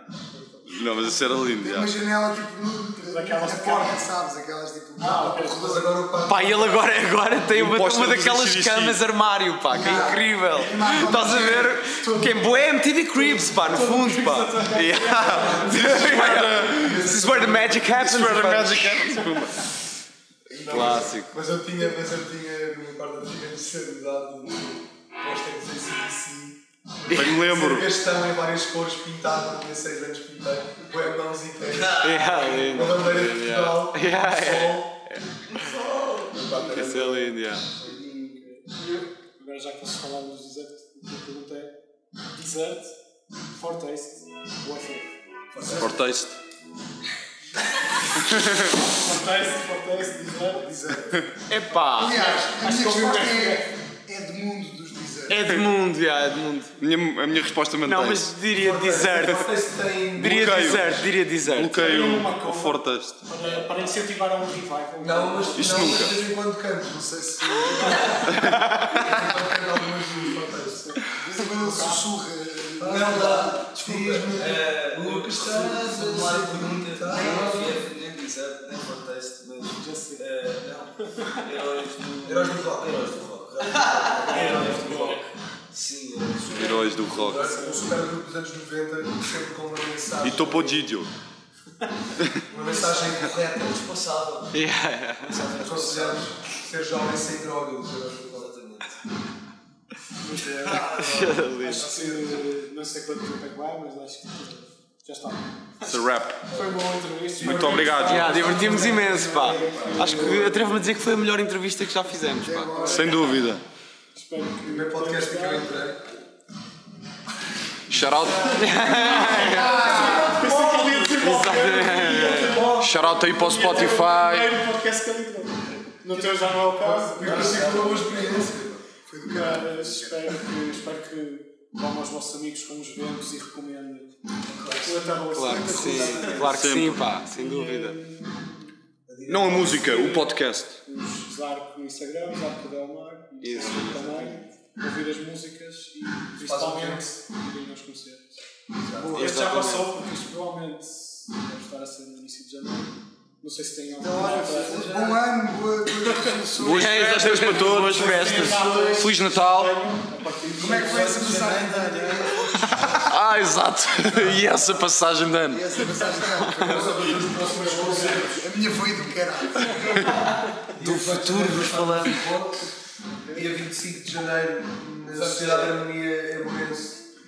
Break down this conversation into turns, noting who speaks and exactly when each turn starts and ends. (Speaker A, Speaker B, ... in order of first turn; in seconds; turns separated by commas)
Speaker A: 0.7-1.9, Speaker B: 1.6-6.1, Speaker C: 3.0-4.1, Speaker C: 5.0-5.9, Speaker D: 5.5-7.0, Speaker E: 6.3-19.4, Speaker A: 7.5-9.0, Speaker B: 9.7-11.8, Speaker C: 9.8-11.5, Speaker C: 13.2-16.0, Speaker D: 15.1-18.6, Speaker A: 15.8-17.0, Speaker A: 17.9-19.6, Speaker D: 20.5-34.9, Speaker E: 20.7-21.3, Speaker F: 20.8-21.0, Speaker A: 27.1-27.9, Speaker F: 31.6-33.1, Speaker E: 32.0-35.2, Speaker F: 35.5-39.0, Speaker D: 36.3-37.4, Speaker E: 36.6-37.7, Speaker C: 39.4-41.7, Speaker C: 42.3-43.0, Speaker C: 43.5-45.8, Speaker D: 45.5-45.9, Speaker B: 45.6-46.0, Speaker A: 45.7-46.4, Speaker A: 48.2-48.6, Speaker C: 48.8-50.7, Speaker B: 50.5-55.6, Speaker E: 51.5-52.3, Speaker C: 52.1-53.7, Speaker E: 55.3-56.8, Speaker A: 56.8-58.4, Speaker E: 57.8-59.5, Speaker D: 58.5-61.0, Speaker E: 60.2-61.8, Speaker A: 60.2-63.2, Speaker C: 61.8-66.1, Speaker F: 63.5-63.9, Speaker D: 65.0-67.0, Speaker A: 65.6-66.2, Speaker B: 66.8-68.6, Speaker E: 68.4-69.0, Speaker D: 69.0-70.9, Speaker C: 70.5-72.1, Speaker B: 71.1-73.4, Speaker D: 72.8-77.8, Speaker F: 72.9-87.2, Speaker C: 79.8-80.3, Speaker C: 81.1-81.4, Speaker D: 82.2-85.1, Speaker C: 84.3-85.2, Speaker A: 86.5-87.6, Speaker D: 87.0-90.8, Speaker C: 87.2-88.0, Speaker A: 90.2-91.1, Speaker D: 92.5-93.9, Speaker F: 92.5-94.5, Speaker E: 94.5-95.6, Speaker F: 95.2-96.4, Speaker D: 95.6-98.5, Speaker F: 98.3-99.0, Speaker C: 100.2-110.8, Speaker F: 100.3-101.5, Speaker E: 101.0-101.9, Speaker D: 101.6-102.4, Speaker A: 105.8-106.4, Speaker D: 106.5-110.9, Speaker A: 107.4-108.4, Speaker E: 108.0-112.9, Speaker B: 112.4-113.4, Speaker C: 112.8-113.1, Speaker A: 112.8-113.6, Speaker C: 114.1-115.7, Speaker D: 114.7-116.1, Speaker A: 117.9-118.8, Speaker E: 118.4-120.3, Speaker C: 118.7-128.2, Speaker D: 118.8-121.2, Speaker F: 119.1-120.3, Speaker B: 119.3-120.4, Speaker E: 121.2-122.7, Speaker D: 122.0-123.2, Speaker A: 122.8-124.5, Speaker D: 126.1-128.8, Speaker F: 127.2-128.6, Speaker B: 129.1-130.4, Speaker C: 129.3-134.2, Speaker D: 134.5-136.9, Speaker C: 134.7-136.6, Speaker E: 135.3-138.0, Speaker A: 136.4-137.1, Speaker C: 137.2-138.7, Speaker D: 139.1-140.2, Speaker A: 139.3-140.8, Speaker C: 139.6-148.3, Speaker E: 143.4-144.4, Speaker D: 146.3-147.1, Speaker D: 148.9-149.2, Speaker E: 149.1-149.9, Speaker C: 149.1-154.9, Speaker B: 154.0-157.7, Speaker F: 154.1-155.2, Speaker A: 156.6-159.7, Speaker E: 156.7-158.6, Speaker C: 157.7-161.5, Speaker D: 158.6-159.0, Speaker B: 160.6-163.1, Speaker F: 160.6-163.1, Speaker D: 161.0-163.1, Speaker A: 163.0-165.9, Speaker B: 165.5-167.2, Speaker E: 166.4-166.8, Speaker D: 166.6-168.5, Speaker C: 167.2-168.5, Speaker B: 168.4-170.2, Speaker D: 170.7-172.7, Speaker F: 170.7-172.3, Speaker D: 173.3-177.0, Speaker F: 175.0-175.9